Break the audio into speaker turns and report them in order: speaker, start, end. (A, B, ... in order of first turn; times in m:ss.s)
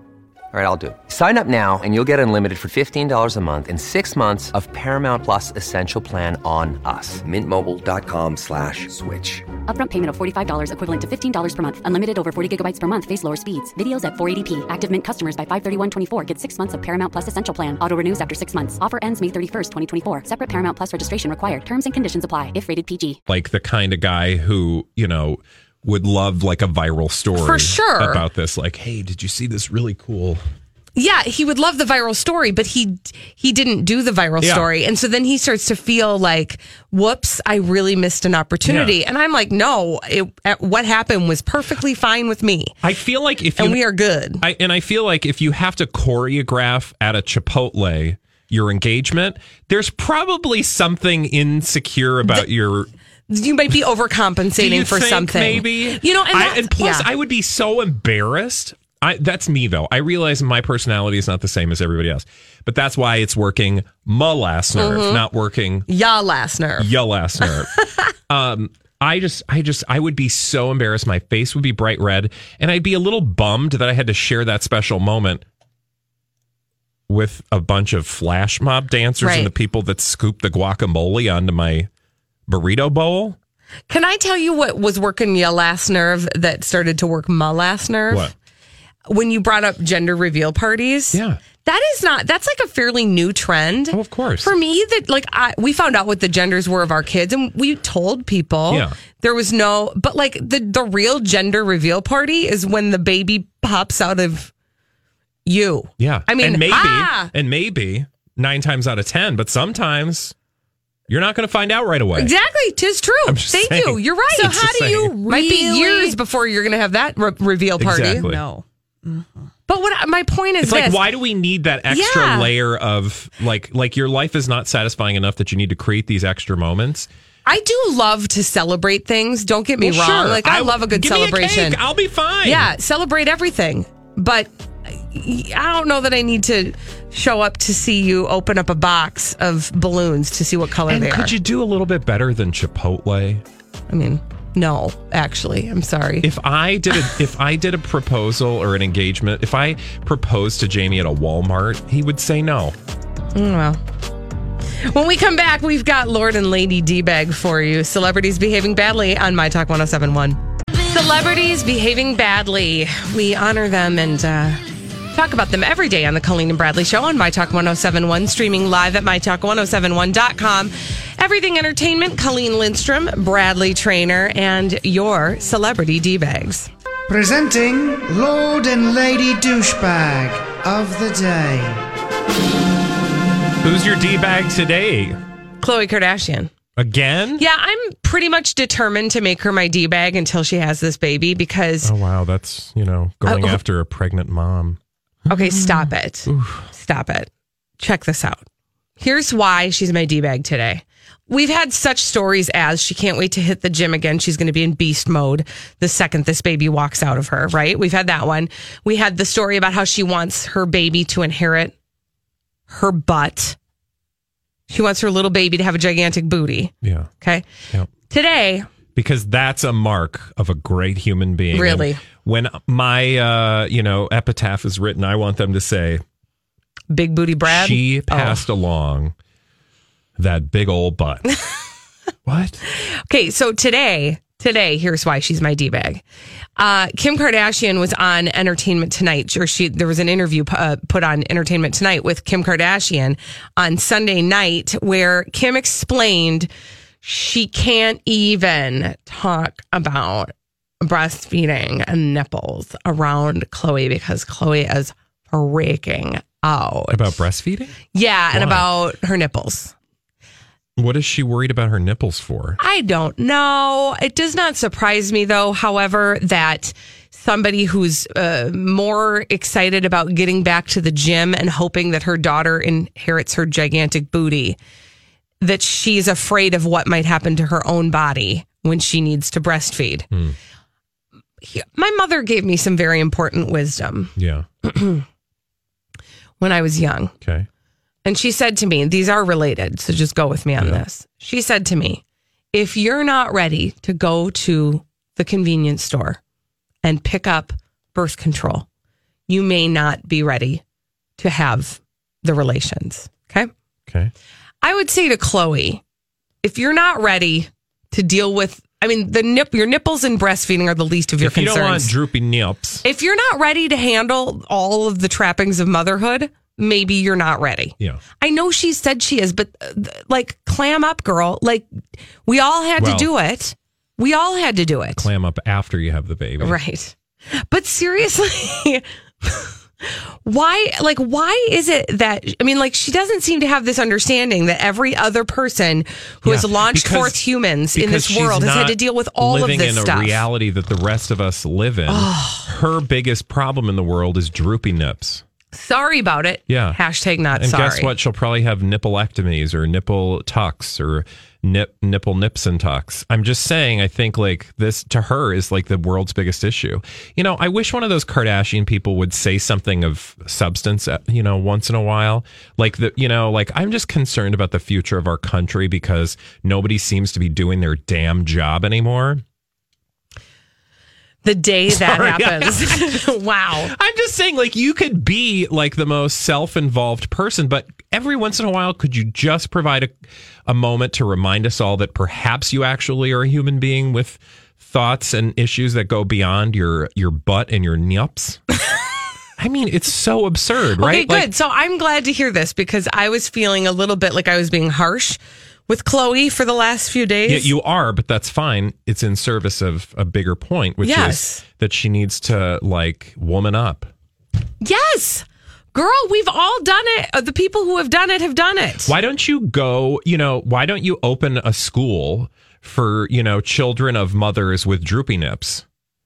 0:00.5-0:09.5 A
0:09.6-0:23.2 B
0:23.3-0:30.4 C
0:27.4-0:28.2 D
0:31.0-0:42.8 D
0:34.4-0:34.7 C
0:38.6-0:38.9 C
0:42.8-0:43.8 C
0:43.6-0:44.4 D
0:44.4-0:52.9 C
0:53.3-0:57.1 D
0:54.6-1:05.9 C
1:04.8-1:05.2 D
1:05.9-1:06.9 D
1:06.8-1:07.7 C
1:07.5-1:08.0 D
1:08.3-1:15.4 C
1:17.1-1:21.9 C
1:19.2-1:19.5 D
1:22.5-1:23.4 C
1:23.9-1:28.2 D
1:29.1-1:44.5 D
1:31.1-1:31.4 C
1:33.9-1:34.5 C
1:45.4-1:47.3 D
1:46.0-1:50.3 C
1:51.1-1:52.3 C
1:52.2-1:58.2 D
1:53.2-1:55.1 C
1:54.3-1:56.2 E
1:57.8-1:58.4 C
1:58.1-1:59.3 E
1:59.7-2:01.0 D
2:00.6-2:07.1 C
2:01.9-2:02.5 D
2:07.4-2:11.8 D
2:09.8-2:12.7 C
2:12.4-2:21.3 D
2:20.9-2:23.4 C
2:23.9-2:26.3 D
2:26.2-2:32.7 C
2:33.3-2:33.8 D
2:34.8-2:56.7 D
2:57.1-3:01.8 F
3:03.6-3:05.2 C
3:05.6-3:06.5 D
3:06.8-3:07.4 C
3:07.4-3:11.9 D
3:11.8-3:16.7 C
3:13.2-3:13.6 D
3:15.3-3:18.4 D
3:19.0-3:31.7 D
3:32.7-3:33.6 D
3:34.7-3:37.4 D
3:36.8-3:37.1 C
3:38.1-3:38.7 D
3:38.9-3:46.0 C
3:41.5-3:42.0 D
3:46.9-3:48.4 D
3:47.4-3:49.1 C
3:50.2-3:51.3 C
3:52.2-3:52.6 C
3:52.7-3:56.0 D
3:56.6-4:06.5 D
4:07.0-4:17.2 D
4:16.9-4:17.8 C
4:17.9-4:19.7 D
4:18.3-4:18.7 C
4:20.8-4:22.6 C
4:22.6-4:34.6 D
4:35.4-4:40.1 D
4:41.4-4:44.1 D
4:44.2-4:44.4 C
4:44.6-4:45.0 D
4:46.4-4:47.1 D
4:47.2-4:47.5 C
4:48.0-4:52.0 D
4:52.5-4:56.2 D
4:56.8-4:58.6 D
4:59.3-5:00.6 D
5:01.2-5:03.5 D
5:03.9-5:04.1 C
5:04.6-5:05.8 D
5:06.4-5:11.9 D
5:11.2-5:12.8 C
5:12.8-5:21.7 D
5:22.2-5:25.1 D
5:22.8-5:23.1 C
5:25.0-5:26.6 C
5:26.4-5:40.2 D
5:36.2-5:45.2 C
5:41.9-5:42.5 D
5:45.5-5:47.9 D
5:46.5-5:46.8 C
5:47.3-6:09.2 C
6:11.2-6:13.7 D
6:11.7-6:13.0 C
6:13.7-6:19.9 C
6:20.5-6:28.4 C
6:29.4-6:31.3 C
6:30.8-6:37.5 D
6:37.3-6:43.9 C
6:40.8-6:41.4 D
6:44.6-6:48.9 D
6:48.8-6:55.6 C